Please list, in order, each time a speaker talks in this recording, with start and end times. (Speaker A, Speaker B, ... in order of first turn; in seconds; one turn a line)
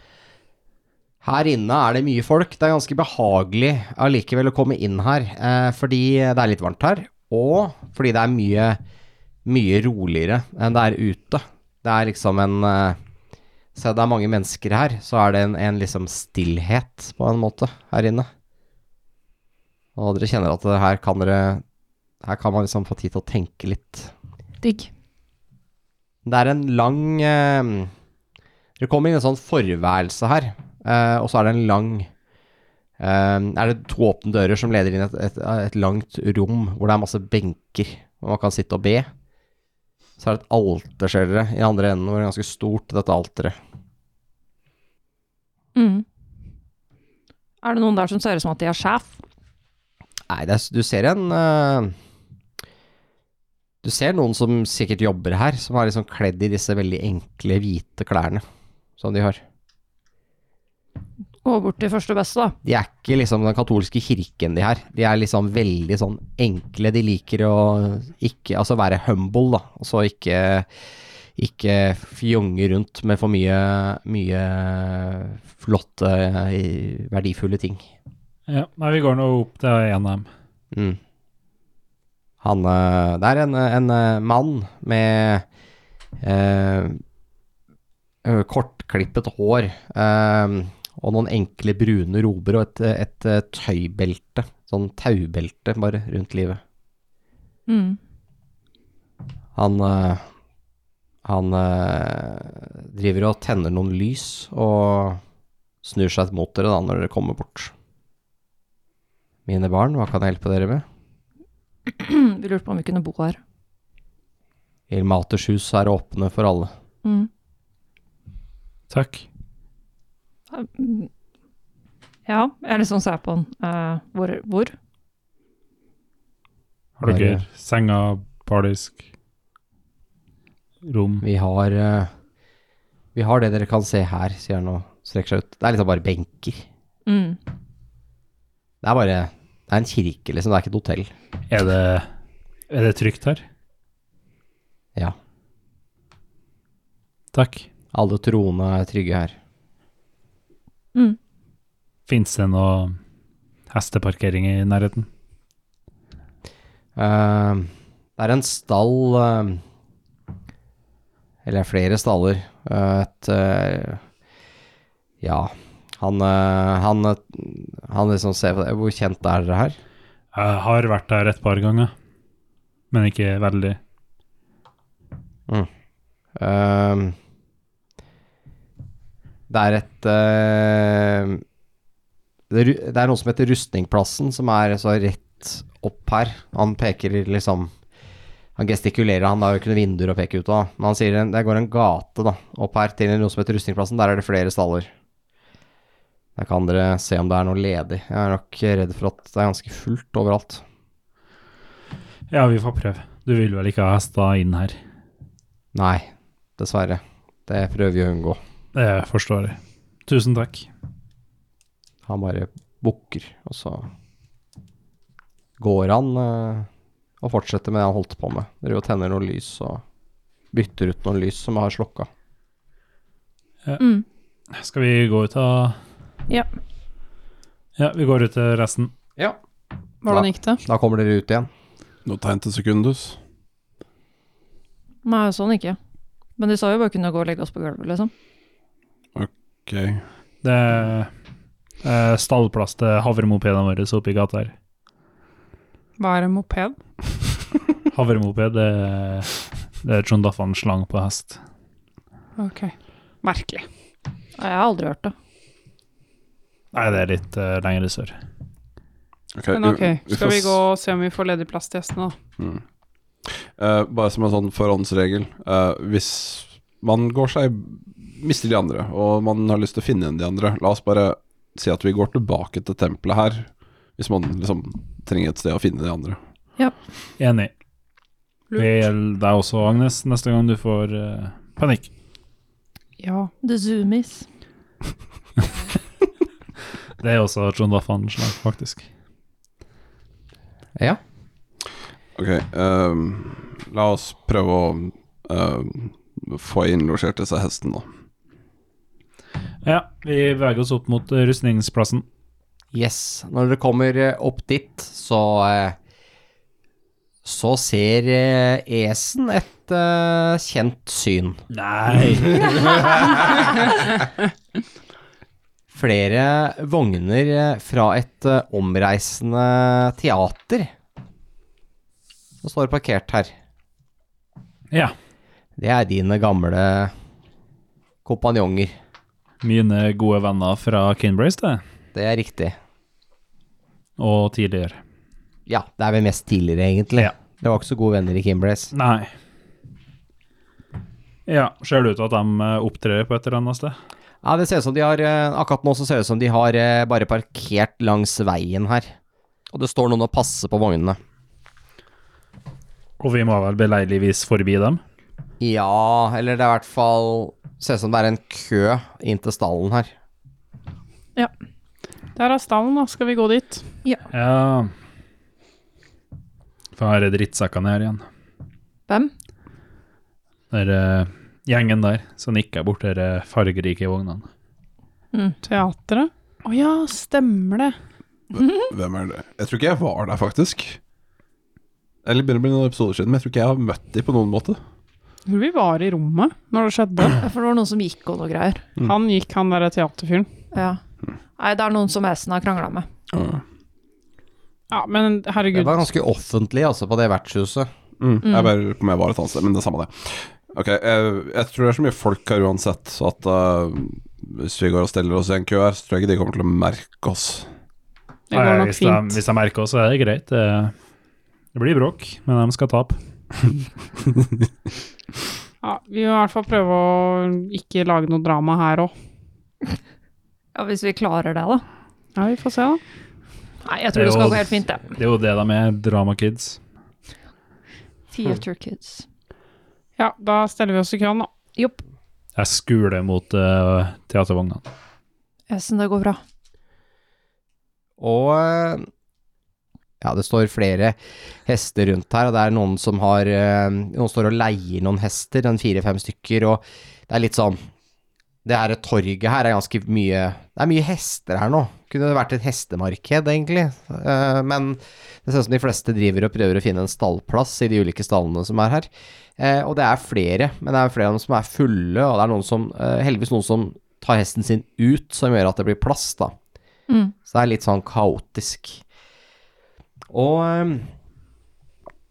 Speaker A: 1.2-8.8
Speaker A: 9.4-13.0
Speaker A: 13.7-18.3
Speaker A: 19.9-21.6
Speaker A: 22.2-24.1
Speaker B: 24.6-24.9
Speaker A: 26.2-27.9
Speaker A: 28.8-32.1
Speaker A: 33.0-39.1
Speaker A: 40.2-43.5
Speaker B: 45.7-46.0
Speaker B: 47.6-49.1
Speaker A: 50.3-51.9
Speaker A: 53.8-58.4
Speaker A: 59.0-59.4
Speaker B: 61.4-62.6
Speaker A: 62.6-70.7
Speaker A: 71.3-77.8
Speaker C: 78.5-80.3
Speaker A: 80.7-81.0
Speaker A: 82.4-85.4
Speaker A: 86.2-87.0
Speaker A: 88.2-96.6
Speaker B: 97.7-98.0
Speaker A: 99.5-100.2
Speaker A: 101.2-105.2
Speaker A: 105.8-107.7
Speaker A: 109.5-110.8
Speaker B: 111.9-113.4
Speaker A: 114.9-116.7
Speaker B: 117.0-117.3
Speaker C: 118.9-119.2
Speaker B: 120.5-121.1
Speaker B: 122.3-124.7
Speaker C: 127.0-129.0
Speaker A: 127.0-127.4
Speaker C: 130.8-131.2
Speaker A: 131.2-132.1
Speaker A: 133.1-136.7
Speaker B: 137.1-137.4
Speaker A: 138.8-141.1
Speaker C: 141.5-142.1
Speaker C: 142.7-143.4
Speaker C: 147.3-147.7
Speaker A: 147.9-149.3
Speaker C: 152.1-153.0
Speaker C: 153.7-155.1
Speaker A: 156.9-159.6
Speaker A: 161.4-164.0
Speaker A: 165.2-169.8
Speaker C: 170.3-171.9
Speaker C: 172.9-173.8
Speaker A: 176.3-177.1
Speaker A: 179.5-181.4
Speaker A: 182.5-187.7
Speaker A: 188.6-194.9
Speaker A: 196.3-200.6
Speaker C: 202.3-204.8
Speaker A: 205.7-208.4
Speaker C: 208.7-210.7
Speaker A: 212.1-213.9
Speaker A: 215.6-216.7
Speaker A: 217.2-219.8
Speaker A: 220.5-222.1
Speaker B: 223.8-224.0
Speaker C: 224.5-225.8
Speaker C: 227.8-228.9
Speaker D: 230.0-230.6
Speaker A: 230.1-231.5
Speaker E: 232.0-233.2
Speaker B: 235.0-235.8
Speaker B: 236.4-238.1
Speaker E: 239.1-240.0
Speaker C: 240.4-241.1
Speaker C: 241.8-244.5
Speaker D: 246.0-246.8
Speaker C: 247.9-251.4
Speaker D: 252.4-253.7
Speaker B: 254.4-255.1
Speaker C: 256.7-258.1
Speaker E: 259.3-260.6
Speaker D: 259.5-262.1
Speaker E: 262.4-262.6
Speaker E: 263.2-276.2
Speaker C: 277.2-277.5
Speaker C: 278.6-281.9
Speaker D: 283.0-283.3
Speaker B: 283.4-284.2
Speaker C: 287.0-288.8
Speaker E: 292.1-297.9
Speaker C: 299.6-302.0
Speaker A: 302.7-305.8
Speaker A: 307.2-311.4
Speaker C: 311.5-313.5
Speaker A: 315.7-320.7
Speaker A: 322.4-323.3
Speaker A: 325.6-326.9
Speaker A: 328.0-328.7
Speaker C: 329.4-331.6
Speaker A: 331.9-332.6
Speaker C: 334.0-334.8
Speaker A: 335.5-338.7
Speaker C: 338.7-339.1
Speaker C: 341.3-343.7
Speaker A: 344.2-348.9
Speaker A: 349.5-351.0
Speaker C: 353.0-354.8
Speaker A: 355.4-359.9
Speaker D: 362.1-363.6
Speaker C: 364.1-364.7
Speaker C: 366.8-368.0
Speaker C: 370.5-374.2
Speaker D: 375.4-377.7
Speaker E: 378.3-380.8
Speaker B: 378.3-378.7
Speaker E: 382.0-384.6
Speaker D: 385.2-387.2
Speaker B: 387.1-388.6
Speaker D: 388.8-390.3
Speaker B: 390.5-390.8
Speaker B: 391.4-392.9
Speaker E: 393.1-393.4
Speaker D: 394.7-395.8
Speaker A: 395.5-397.7
Speaker E: 398.0-407.5
Speaker B: 398.2-398.5
Speaker D: 408.3-409.2
Speaker C: 408.3-410.7
Speaker C: 411.5-413.0
Speaker D: 415.6-418.9
Speaker B: 420.5-421.6
Speaker D: 422.1-422.8
Speaker B: 423.6-424.9
Speaker C: 423.9-426.6
Speaker B: 428.1-429.0
Speaker D: 430.0-431.3
Speaker B: 431.6-431.8
Speaker C: 432.4-434.6
Speaker B: 435.5-436.2
Speaker A: 438.0-438.9
Speaker A: 440.0-447.6
Speaker A: 448.4-466.3
Speaker B: 466.9-467.1
Speaker A: 467.2-468.8
Speaker A: 470.1-470.9